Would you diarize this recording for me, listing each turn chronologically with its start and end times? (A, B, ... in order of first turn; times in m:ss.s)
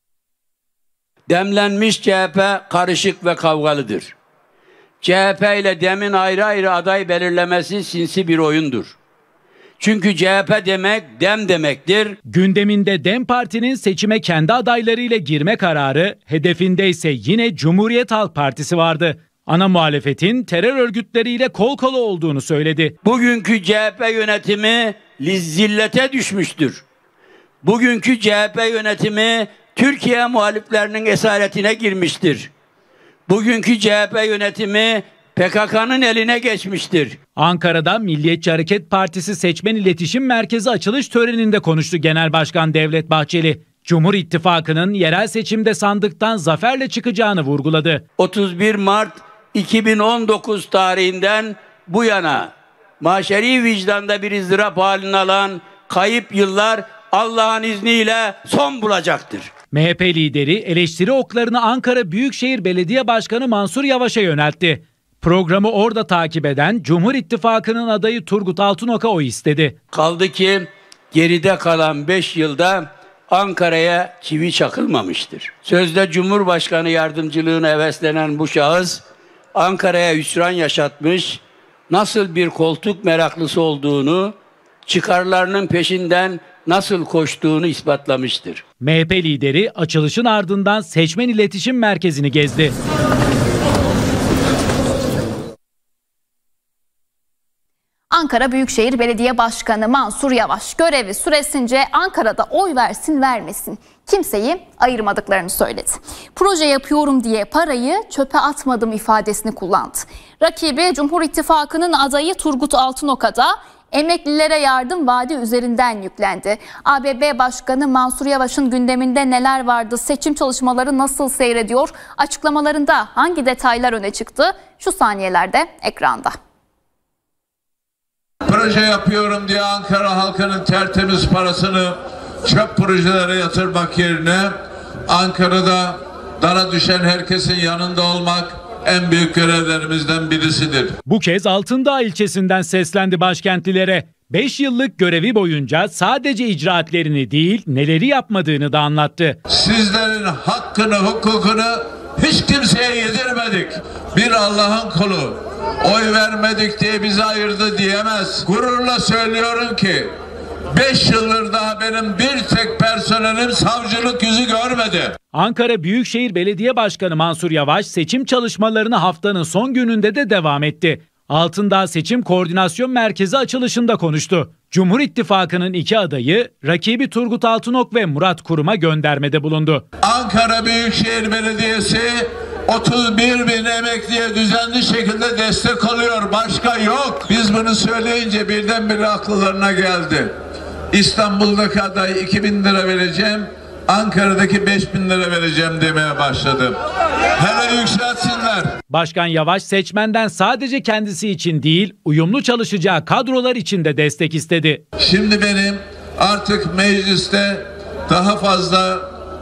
0:01.3-0:04.1 A
0:05.0-0:09.0 A
0:09.8-0:12.2 A
0:12.3-0:22.9 B
0:23.0-0:26.8 A
0:27.6-0:32.5 A
0:33.3-0:37.2 A
0:37.4-0:48.0 B
0:48.2-0:59.5 A
0:59.7-1:09.8 B
1:09.9-1:19.0 A
1:19.5-1:24.3 A
1:24.8-1:28.6 A
1:28.8-1:32.7 B
1:38.1-2:06.3 C
2:08.4-2:14.5 D
2:15.1-2:21.0 D
2:21.0-2:29.4 B
2:29.5-2:40.1 D
2:40.7-2:45.2 D
2:45.3-2:59.8 B
3:00.0-3:10.3 D
3:10.9-3:16.8 D
3:17.4-3:18.7 D
3:18.9-3:24.8 B
3:25.0-3:29.1 D